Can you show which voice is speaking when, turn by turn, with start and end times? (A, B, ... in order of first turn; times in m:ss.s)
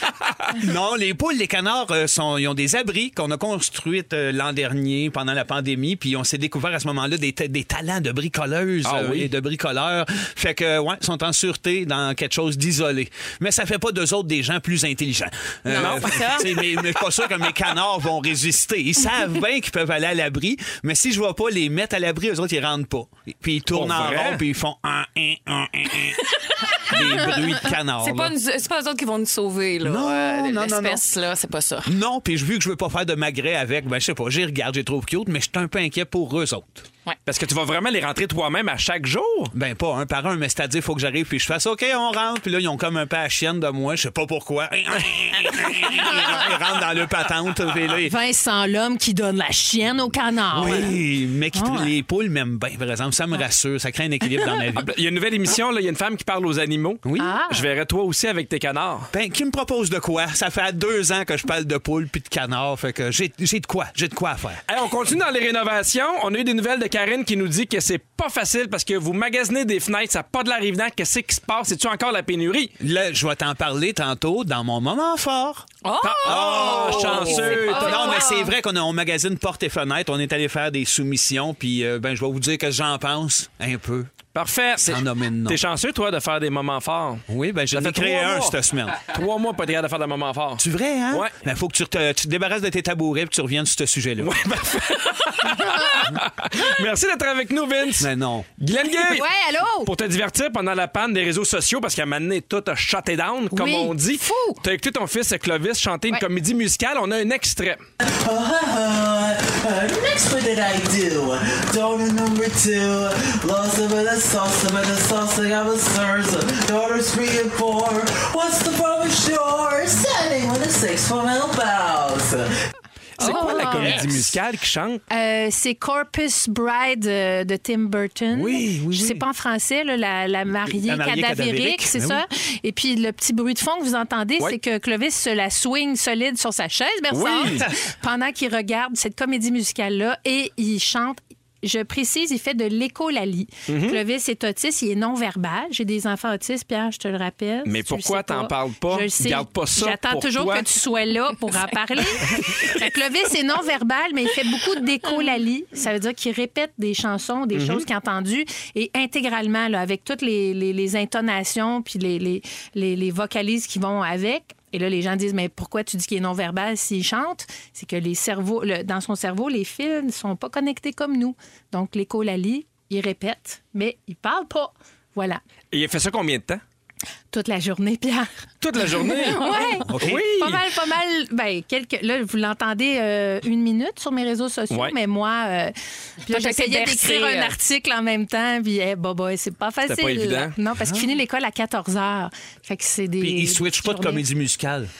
0:00.5-0:26.3 A
0:08.8-0:09.3 B
0:15.7-0:16.5 C
0:15.8-0:16.5 B
0:23.7-0:24.4 B
0:26.5-0:27.0 C
0:26.8-0:28.3 A
0:28.0-0:31.9 C
0:29.8-0:31.0 A
0:31.9-0:36.8 A
0:37.3-0:39.5 B
0:39.5-0:48.1 A
0:48.0-0:51.0 D
0:50.5-0:54.9 A
0:51.5-0:51.9 D
0:54.8-0:59.1 B
0:57.0-0:57.4 A
0:57.2-0:57.7 D
0:59.1-1:04.6 A
1:04.7-1:12.7 B
1:12.8-1:15.7 A
1:15.8-1:18.5 C
1:16.0-1:18.2 B
1:16.2-1:24.2 A
1:24.3-1:31.3 B
1:24.8-1:25.6 A
1:27.3-1:29.1 A
1:30.6-1:34.3 A
1:34.2-1:39.3 B
1:38.0-1:38.5 A
1:39.0-1:39.9 D
1:39.8-1:47.8 B
1:43.5-1:44.6 D
1:48.0-2:02.5 E
2:03.2-2:05.0 B
2:03.2-2:04.0 D
2:03.2-2:04.0 C
2:03.4-2:04.4 A
2:05.1-2:55.4 D
2:08.3-2:09.2 A
2:10.6-2:12.2 A
2:17.1-2:17.7 B
2:23.7-2:24.0 B
2:27.6-2:30.6 B
2:37.6-2:37.9 B
2:55.7-2:56.6 B
2:57.3-3:14.2 D
2:58.6-3:00.6 B
2:59.2-2:59.8 C
2:59.9-3:00.2 A
3:06.3-3:07.6 C
3:09.9-3:10.6 B
3:10.8-3:11.0 A
3:13.2-3:14.9 A